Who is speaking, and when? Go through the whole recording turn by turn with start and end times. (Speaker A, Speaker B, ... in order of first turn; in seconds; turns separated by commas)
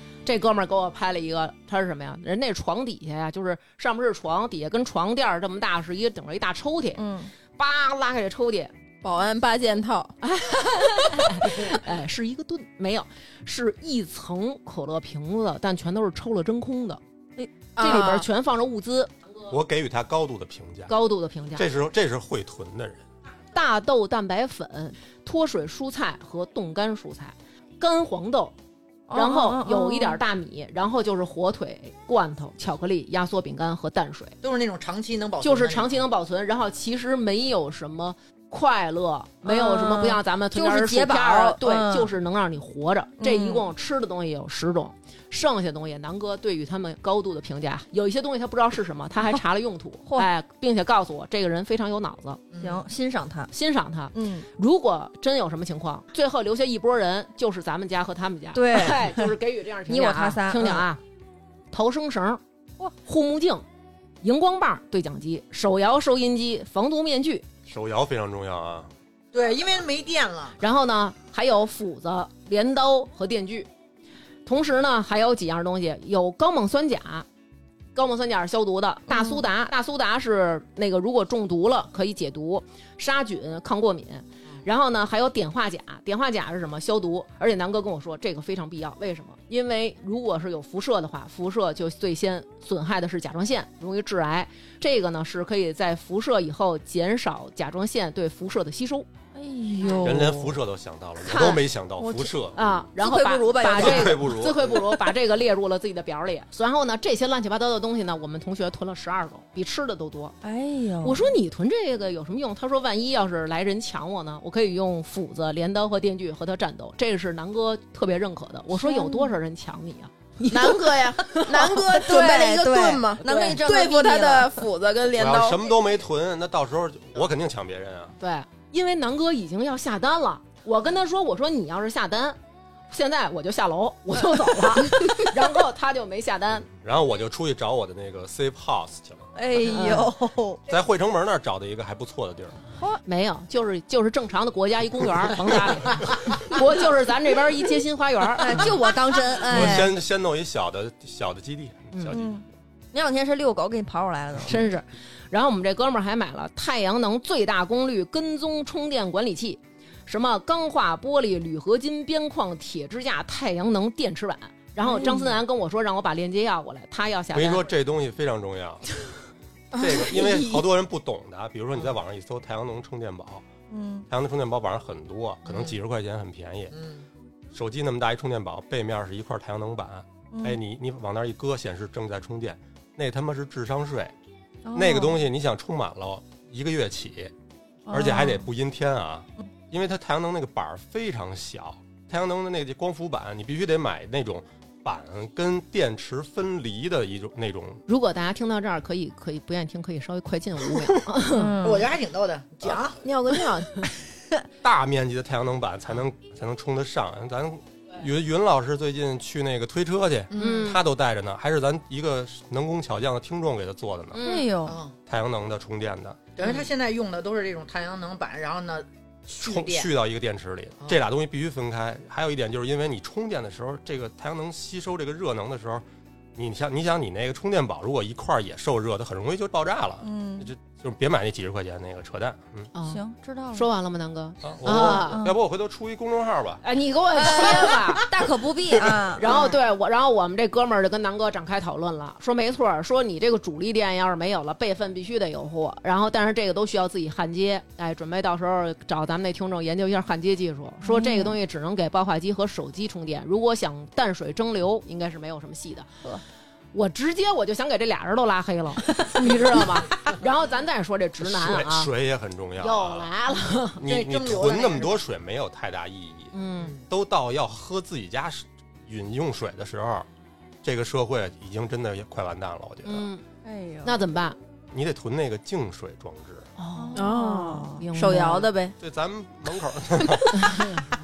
Speaker A: 0.3-7.0, Speaker B: 7.0-7.3, Speaker A: 7.5-8.7, Speaker C: 9.0-10.2, Speaker A: 10.2-17.0, Speaker B: 17.4-18.1, Speaker C: 17.8-18.3, Speaker A: 17.8-19.1, Speaker D: 19.5-20.9, Speaker A: 20.9-21.7, Speaker D: 21.6-23.1, Speaker A: 23.5-28.6, Speaker B: 29.1-30.2, Speaker A: 29.1-34.4, Speaker E: 34.4-36.0, Speaker A: 35.4-52.4, Speaker B: 39.5-42.1, Speaker B: 43.2-43.6, Speaker E: 52.5-52.8, Speaker B: 52.6-53.5, Speaker A: 53.5-61.0, Speaker B: 54.1-54.5, Speaker B: 58.5-59.3, Speaker B: 59.9-60.9, Speaker A: 61.7-62.4, Speaker A: 63.0-63.6, Speaker A: 64.2-67.5, Speaker D: 67.7-68.9, Speaker E: 69.3-70.6, Speaker A: 70.6-73.7, Speaker A: 74.5-77.3, Speaker A: 78.0-99.1, Speaker B: 79.1-79.4, Speaker B: 99.3-100.6, Speaker D: 100.0-102.7, Speaker B: 101.3-102.3, Speaker A: 102.5-110.3, Speaker B: 103.0-104.4, Speaker D: 103.7-104.8, Speaker B: 110.4-111.3, Speaker A: 111.0-121.7, Speaker B: 118.8-119.3, Speaker C: 120.5-125.7, Speaker B: 121.6-124.6, Speaker D: 125.2-128.1, Speaker A: 128.2-132.4, Speaker A: 132.9-136.7, Speaker D: 136.7-139.3, Speaker B: 139.3-140.6, Speaker A: 139.7-140.1, Speaker D: 140.7-142.6, Speaker A: 143.1-148.8, Speaker B: 148.4-149.9, Speaker D: 149.5-152.4, Speaker A: 151.9-152.2, Speaker B: 152.2-154.7, Speaker A: 154.5-167.7, Speaker B: 164.8-165.3, Speaker D: 167.3-168.9, Speaker D: 169.8-173.4, Speaker B: 173.7-174.1, Speaker D: 174.1-176.7, Speaker E: 176.7-177.1, Speaker D: 177.5-184.1, Speaker B: 180.3-180.6, Speaker B: 184.7-185.2, Speaker D: 184.7-187.3, Speaker B: 187.9-188.5, Speaker D: 187.9-197.8, Speaker A: 197.9-201.6, Speaker B: 201.3-201.9, Speaker E: 201.6-203.0, Speaker C: 203.0-203.7, Speaker D: 204.6-214.2, Speaker E: 210.3-210.7, Speaker A: 210.4-210.8, Speaker A: 214.1-214.6, Speaker B: 214.2-214.8, Speaker E: 214.6-215.0, Speaker D: 215.1-216.2, Speaker E: 216.4-219.9, Speaker D: 219.4-225.8, Speaker D: 226.3-232.7, Speaker B: 230.0-230.5, Speaker A: 232.7-235.2, Speaker B: 232.9-233.7, Speaker D: 234.4-236.6, Speaker B: 234.7-235.4, Speaker A: 236.6-238.1, Speaker B: 237.2-239.5, Speaker A: 239.2-255.9, Speaker B: 250.8-251.4, Speaker A: 256.7-261.9, Speaker D: 261.2-263.1, Speaker A: 262.6-263.8, Speaker D: 263.8-270.1, Speaker E: 263.8-265.0, Speaker A: 266.3-266.7, Speaker D: 270.6-273.1, Speaker A: 272.9-273.2, Speaker B: 273.4-274.0, Speaker A: 273.8-274.4, Speaker D: 274.7-276.5, Speaker A: 276.6-278.5, Speaker B: 276.8-277.8, Speaker C: 277.0-278.8, Speaker D: 278.8-280.8, Speaker A: 280.3-280.9